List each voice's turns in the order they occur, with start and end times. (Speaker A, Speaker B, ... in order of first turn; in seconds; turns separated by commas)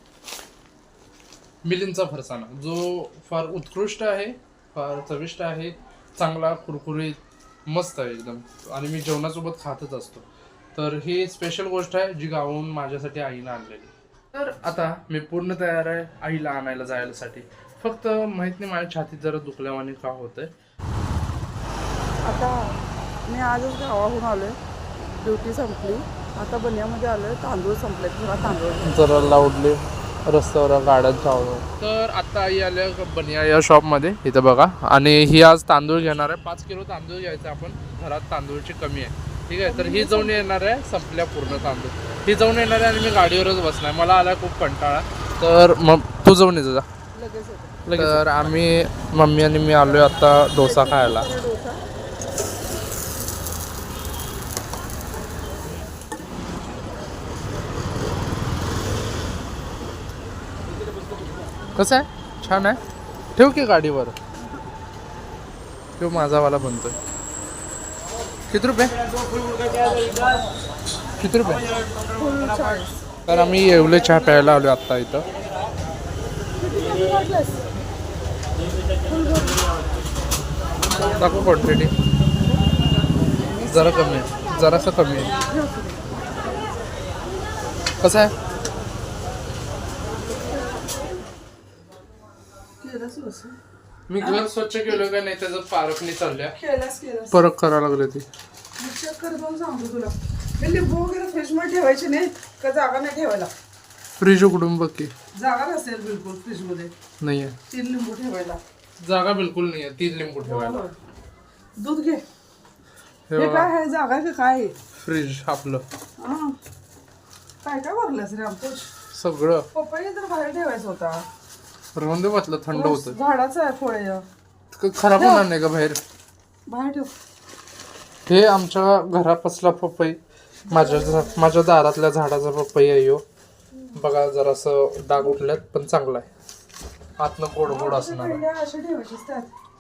Speaker A: 1.6-20.5, Speaker B: 22.2-29.0, Speaker A: 28.8-46.9, Speaker B: 39.6-40.4, Speaker B: 47.1-48.2, Speaker A: 47.9-51.3, Speaker B: 50.5-51.8, Speaker A: 61.8-62.8, Speaker A: 63.4-64.1, Speaker A: 66.0-67.0, Speaker A: 68.5-69.0, Speaker B: 69.8-70.5, Speaker A: 71.2-71.7, Speaker B: 72.2-73.0, Speaker A: 73.3-75.3, Speaker B: 76.6-77.7, Speaker B: 79.0-79.7, Speaker A: 81.0-81.9, Speaker B: 83.5-83.8, Speaker A: 83.6-85.3, Speaker B: 85.4-86.2, Speaker A: 88.0-88.3, Speaker B: 90.3-90.9, Speaker B: 92.8-93.5, Speaker A: 94.1-96.5, Speaker B: 94.2-94.5, Speaker B: 96.5-97.5, Speaker A: 97.3-98.3, Speaker B: 98.8-103.5, Speaker A: 104.2-105.1, Speaker B: 105.3-106.9, Speaker A: 107.2-107.6, Speaker B: 107.7-108.6, Speaker A: 109.0-110.8, Speaker B: 110.4-110.9, Speaker B: 111.8-112.2, Speaker A: 113.3-113.7, Speaker B: 113.3-114.8, Speaker A: 115.0-115.8, Speaker B: 116.2-116.6, Speaker B: 117.6-118.9, Speaker A: 119.1-119.7, Speaker B: 119.7-121.2, Speaker A: 122.0-123.2, Speaker B: 122.7-124.2, Speaker A: 124.7-126.0, Speaker B: 125.2-125.5, Speaker B: 126.7-127.1, Speaker A: 128.3-133.2, Speaker B: 130.7-131.4, Speaker A: 133.9-136.3, Speaker A: 137.2-138.4, Speaker B: 137.6-139.5